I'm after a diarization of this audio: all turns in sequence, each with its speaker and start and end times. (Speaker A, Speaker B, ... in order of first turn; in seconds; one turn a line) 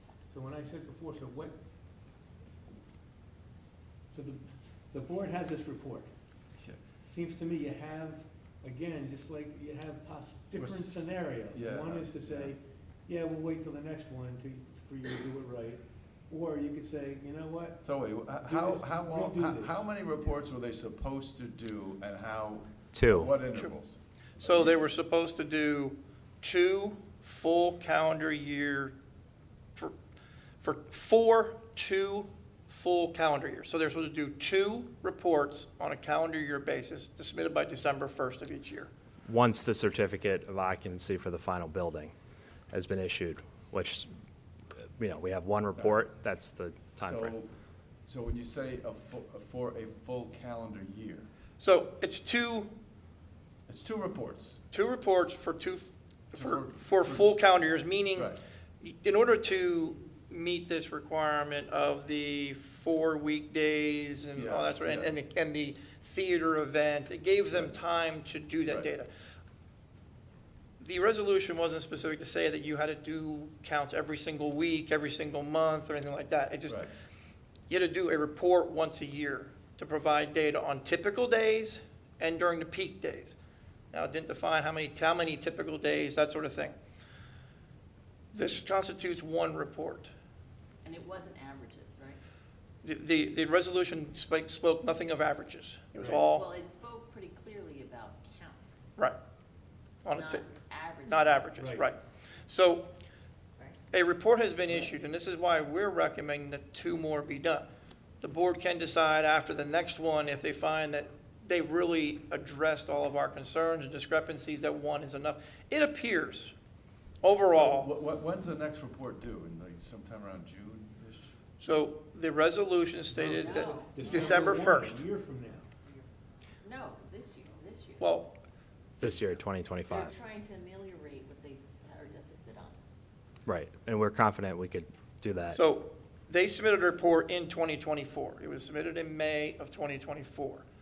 Speaker A: 0.3-1.6
Speaker A: 4.1-6.1
Speaker A: 7.0-17.8
Speaker B: 10.6-12.5
Speaker B: 17.8-24.8
Speaker A: 18.4-19.9
Speaker C: 22.9-23.3
Speaker D: 24.4-29.0
Speaker D: 30.6-38.9
Speaker C: 39.3-42.1
Speaker C: 42.7-44.1
Speaker C: 45.0-47.3
Speaker B: 47.0-47.5
Speaker B: 48.0-51.3
Speaker D: 51.6-52.7
Speaker B: 53.7-54.6
Speaker D: 54.7-69.1
Speaker B: 56.4-57.4
Speaker B: 58.1-58.4
Speaker B: 64.3-65.2
Speaker D: 70.8-76.9
Speaker D: 77.7-83.4
Speaker D: 83.9-86.8
Speaker D: 88.3-90.1
Speaker E: 90.8-92.2
Speaker D: 92.8-96.5
Speaker E: 96.0-98.8
Speaker D: 100.0-100.4
Speaker E: 100.1-101.7
Speaker D: 101.0-102.9
Speaker A: 101.6-101.9
Speaker D: 103.9-107.7
Speaker D: 108.2-116.5
Speaker D: 117.2-117.9
Speaker B: 117.5-121.3
Speaker D: 121.6-125.0
Speaker A: 123.1-125.7
Speaker E: 123.2-124.7
Speaker E: 125.8-126.1
Speaker E: 126.6-128.2
Speaker D: 128.0-128.3
Speaker C: 129.0-130.1
Speaker E: 129.9-132.8
Speaker C: 133.4-135.6
Speaker D: 135.5-140.6